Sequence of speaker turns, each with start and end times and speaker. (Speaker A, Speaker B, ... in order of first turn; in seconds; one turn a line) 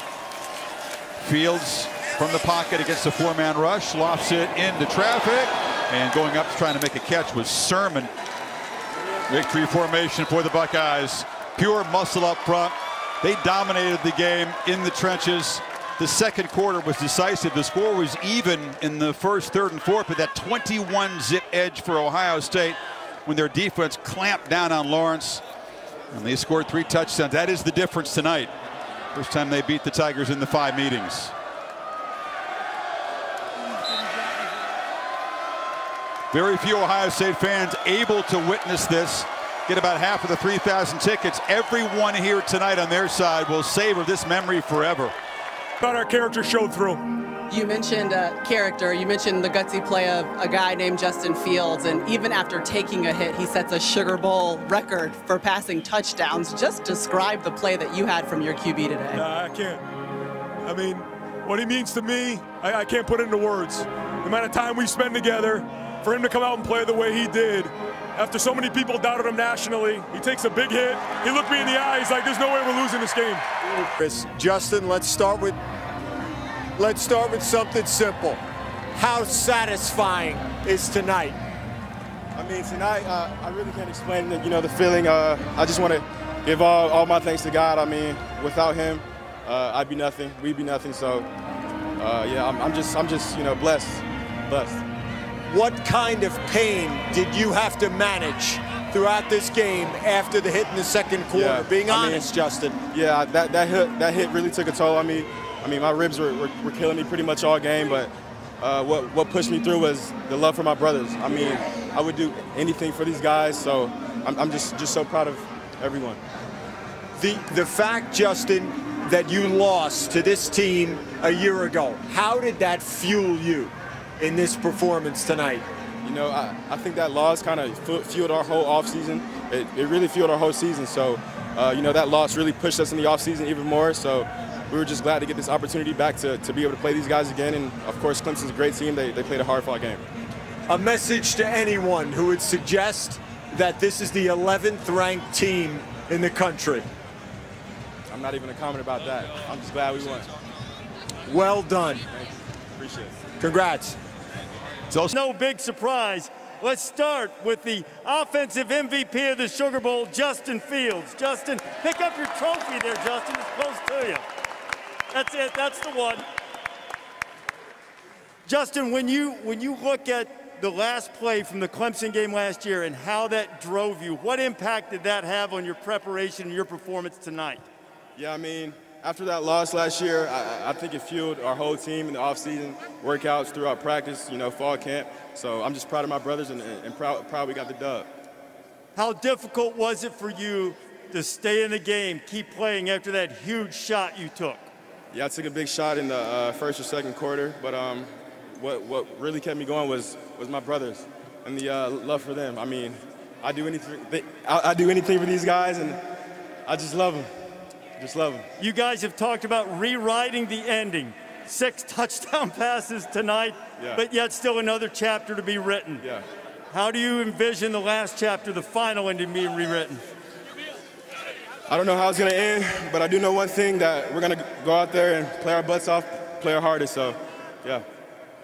Speaker A: 1.2-8.1
Speaker A: 9.3-25.4
Speaker A: 26.1-28.5
Speaker A: 29.1-31.3
Speaker A: 36.3-45.1
Speaker B: 45.8-47.0
Speaker C: 47.5-59.2
Speaker B: 59.1-59.8
Speaker B: 60.6-73.4
Speaker D: 73.6-75.6
Speaker D: 76.8-78.4
Speaker D: 78.9-81.4
Speaker E: 82.4-91.3
Speaker E: 92.0-94.8
Speaker D: 95.5-102.8
Speaker E: 101.3-102.3
Speaker E: 102.9-116.2
Speaker D: 117.2-125.7
Speaker E: 126.0-140.1
Speaker D: 140.7-146.9
Speaker E: 148.1-150.3
Speaker D: 151.3-152.1
Speaker E: 152.1-153.2
Speaker D: 153.4-154.0
Speaker A: 154.9-155.2
Speaker F: 155.1-164.2
Speaker F: 165.1-166.2
Speaker F: 168.5-177.7
Speaker E: 178.2-188.1
Speaker F: 189.0-194.7
Speaker E: 195.1-206.0
Speaker E: 206.7-207.3
Speaker E: 208.0-208.5
Speaker F: 208.6-216.1
Speaker F: 216.7-220.0
Speaker E: 221.7-227.8